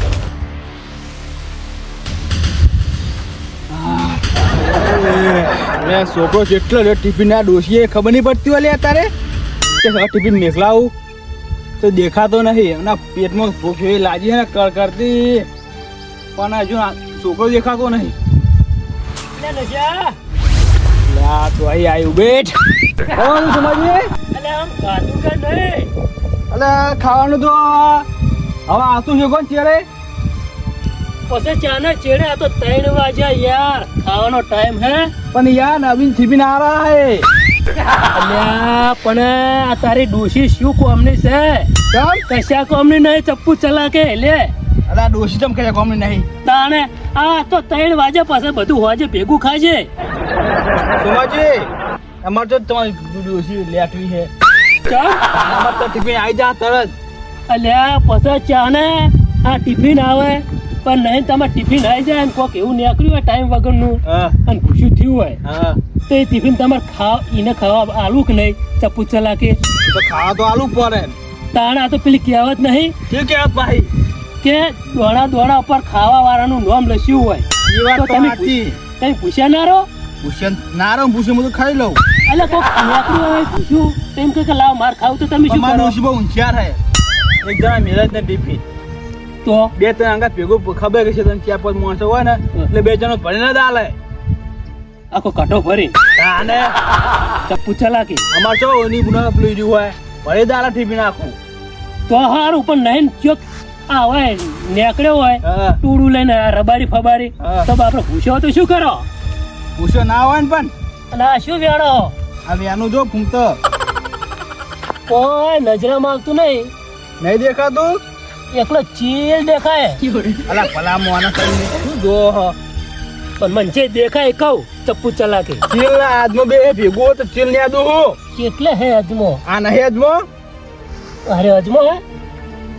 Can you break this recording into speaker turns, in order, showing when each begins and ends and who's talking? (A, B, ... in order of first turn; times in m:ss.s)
0:03.7-0:09.1 A
0:09.8-0:10.9 A
0:11.8-0:15.5 A
0:16.4-0:18.2 A
0:19.4-0:20.2 B
0:21.1-0:22.5 A
0:23.1-0:24.1 A
0:24.3-0:25.9 B
0:26.5-0:28.1 A
0:28.7-0:29.8 A
0:31.3-0:35.1 B
0:35.3-0:37.3 A
0:38.1-0:41.7 B
0:41.9-0:42.2 A
0:42.3-0:44.5 B
0:44.9-0:46.3 A
0:46.4-0:49.9 B
0:51.0-0:51.7 A
0:52.2-0:54.3 A
0:54.9-0:55.2 B
0:55.3-0:57.0 A
0:57.5-1:05.4 B
1:04.1-1:04.4 A
1:05.4-1:05.8 A
1:06.1-1:09.6 B
1:09.8-1:11.2 A
1:11.5-1:13.0 B
1:13.1-1:13.9 A
1:14.4-1:19.9 B
1:17.6-1:18.8 A
1:20.2-1:22.0 A
1:22.3-1:26.0 B
1:25.5-1:26.8 A
1:27.4-1:28.6 A
1:29.4-1:29.7 B
1:29.8-1:34.0 A
1:35.1-1:35.9 B
1:36.2-1:36.7 A
1:37.5-1:38.2 B
1:38.3-1:41.4 A
1:42.1-1:49.1 B
1:45.4-1:45.8 A
1:47.4-1:47.7 A
1:49.8-1:50.7 A
1:51.1-1:52.1 B
1:52.5-1:53.6 A
1:55.1-1:56.7 B
1:57.2-1:58.0 A
1:58.5-2:00.4 B
2:00.5-2:02.6 A
2:03.4-2:05.6 B
2:05.7-2:08.2 A
2:08.3-2:09.4 B
2:09.5-2:10.2 A
2:11.3-2:12.0 B